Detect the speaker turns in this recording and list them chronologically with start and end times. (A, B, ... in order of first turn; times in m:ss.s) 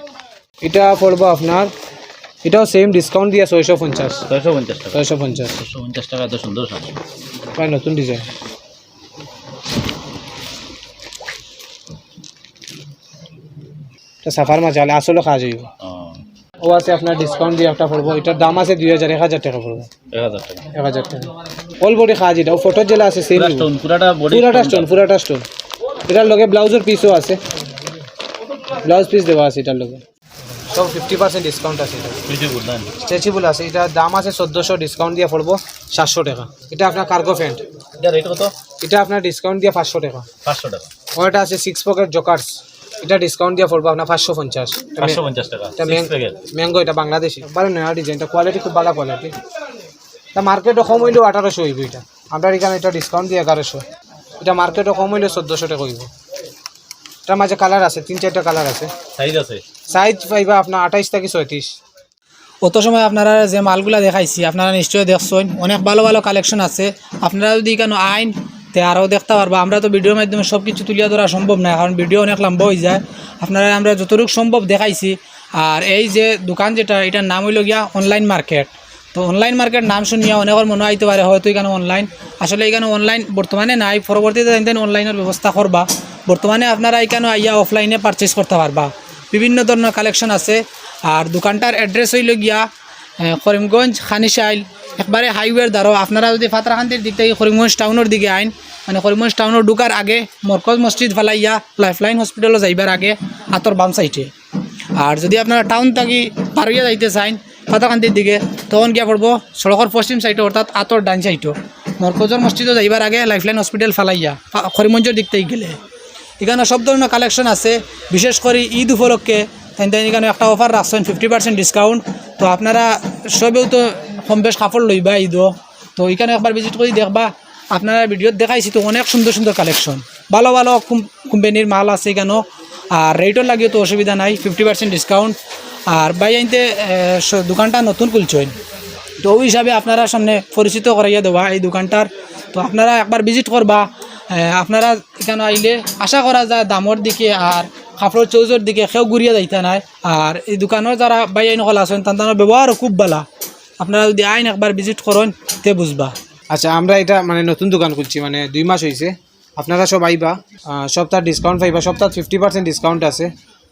0:00.6-0:01.7 A
0:02.4-0:04.2 A
0:04.2-0:06.9 B
0:04.9-0:05.6 A
0:07.6-0:08.3 A
0:14.2-0:15.7 A
0:15.8-0:16.2 B
0:16.6-0:19.9 A
0:20.1-0:20.7 B
0:20.7-0:23.7 A
0:23.3-0:24.9 B
0:24.3-0:25.4 A
0:26.1-0:27.4 A
0:28.8-0:30.0 A
0:30.7-0:32.2 A
0:32.3-0:33.0 B
0:33.0-0:37.6 A
0:38.0-0:38.5 B
0:38.8-0:40.3 A
0:40.4-0:40.9 B
0:41.1-0:45.2 A
0:45.0-0:46.4 B
0:45.8-0:49.3 A
0:50.3-0:53.8 A
0:54.4-0:56.1 A
0:57.2-0:58.9 A
0:59.1-0:59.6 B
0:59.9-1:01.8 A
1:02.6-1:32.6 C
1:33.2-1:44.3 C
1:45.0-1:55.8 C
1:56.4-2:15.4 C
2:15.9-2:18.5 C
2:19.2-2:33.2 C
2:33.8-2:36.1 C
2:36.5-2:43.3 A